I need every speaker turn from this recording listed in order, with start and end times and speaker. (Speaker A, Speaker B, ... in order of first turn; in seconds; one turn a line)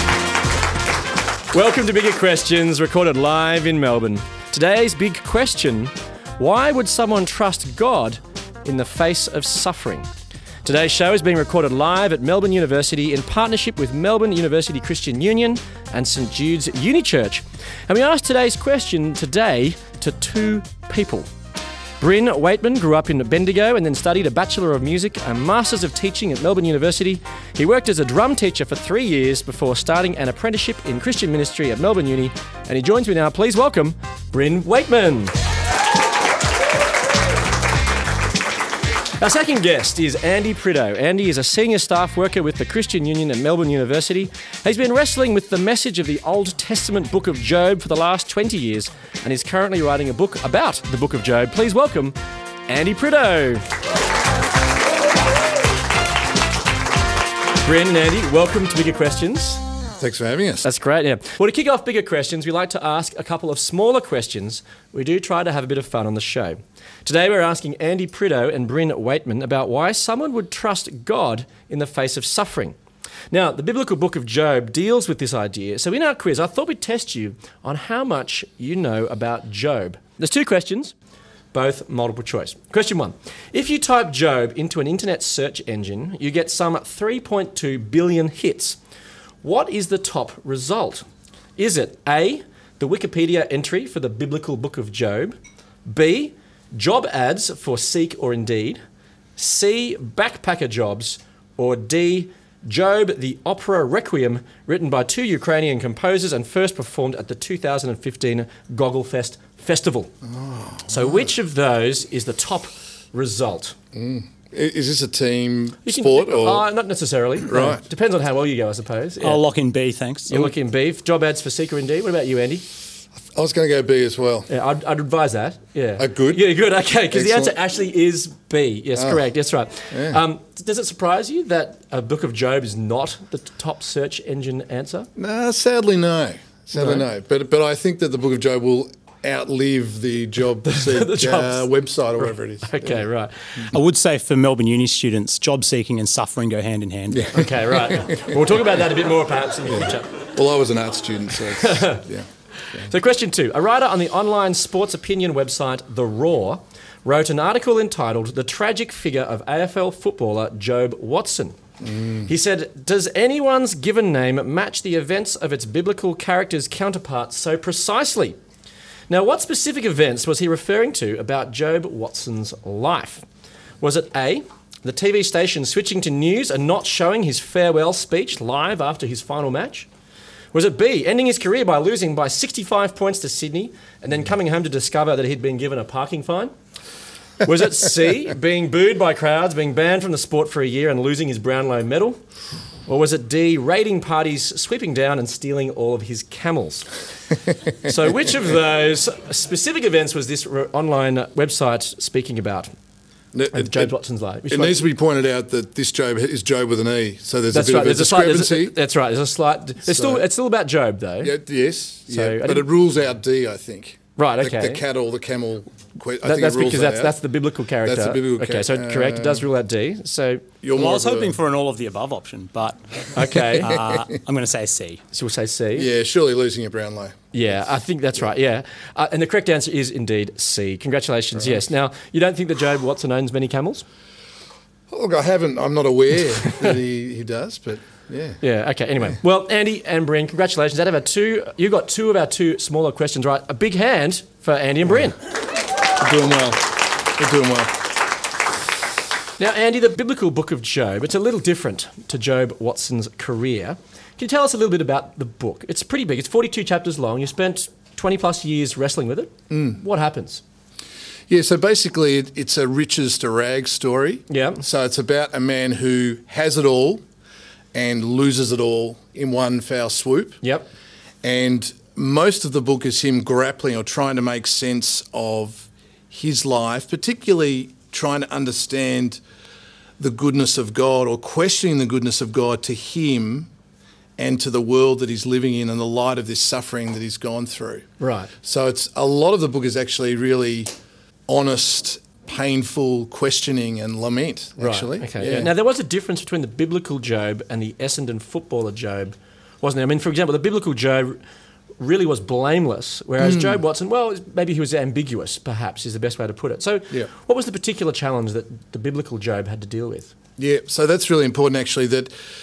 Speaker A: 1.5-10.1
Speaker A: 10.7-21.3
Speaker A: 22.0-35.4
Speaker A: 39.2-52.1
Speaker A: 52.7-53.7
Speaker A: 57.6-59.6
Speaker B: 60.0-60.7
Speaker A: 60.6-72.8
Speaker A: 73.3-80.9
Speaker A: 81.5-88.8
Speaker A: 89.4-91.1
Speaker A: 91.6-98.8
Speaker A: 99.4-110.1
Speaker B: 110.2-111.3
Speaker A: 110.9-113.8
Speaker B: 113.9-116.6
Speaker A: 115.8-119.4
Speaker B: 117.5-117.8
Speaker C: 119.2-120.5
Speaker A: 120.3-122.7
Speaker B: 123.2-124.5
Speaker A: 124.5-135.1
Speaker B: 126.0-126.4
Speaker B: 127.1-127.5
Speaker B: 129.0-129.2
Speaker B: 129.9-130.2
Speaker B: 135.2-143.1
Speaker A: 136.8-137.0
Speaker A: 140.7-141.7
Speaker A: 142.2-143.7
Speaker C: 143.7-147.4
Speaker B: 147.1-148.3
Speaker A: 147.3-150.1
Speaker B: 149.7-152.9
Speaker A: 151.6-152.1
Speaker A: 152.6-161.6
Speaker B: 161.8-162.3
Speaker A: 162.3-168.4
Speaker A: 169.1-173.3
Speaker A: 173.8-179.9
Speaker A: 180.5-186.5
Speaker A: 187.4-192.2
Speaker A: 192.9-196.9
Speaker A: 197.8-202.7
Speaker B: 203.3-203.9
Speaker A: 203.5-204.8
Speaker B: 204.5-208.8
Speaker A: 207.5-211.4
Speaker B: 209.9-210.3
Speaker B: 211.2-217.2
Speaker A: 212.1-212.7
Speaker A: 214.2-214.8
Speaker A: 216.2-220.5
Speaker B: 217.8-219.4
Speaker B: 220.6-221.3
Speaker C: 220.7-225.0
Speaker A: 223.1-223.7
Speaker A: 225.1-225.9
Speaker B: 225.8-227.6
Speaker A: 227.3-233.8
Speaker B: 231.3-231.6
Speaker B: 234.9-238.4
Speaker A: 238.4-245.2
Speaker B: 246.0-247.8
Speaker A: 249.4-260.4
Speaker B: 259.5-259.8
Speaker B: 261.3-267.0
Speaker A: 264.3-264.6
Speaker B: 267.7-270.4
Speaker A: 270.4-270.7
Speaker B: 271.2-279.2
Speaker B: 280.0-283.5
Speaker B: 284.2-287.9
Speaker A: 288.0-288.3
Speaker B: 288.4-290.7
Speaker B: 291.3-295.5
Speaker A: 294.6-301.2
Speaker A: 301.8-310.1
Speaker B: 303.2-303.6
Speaker B: 310.4-312.1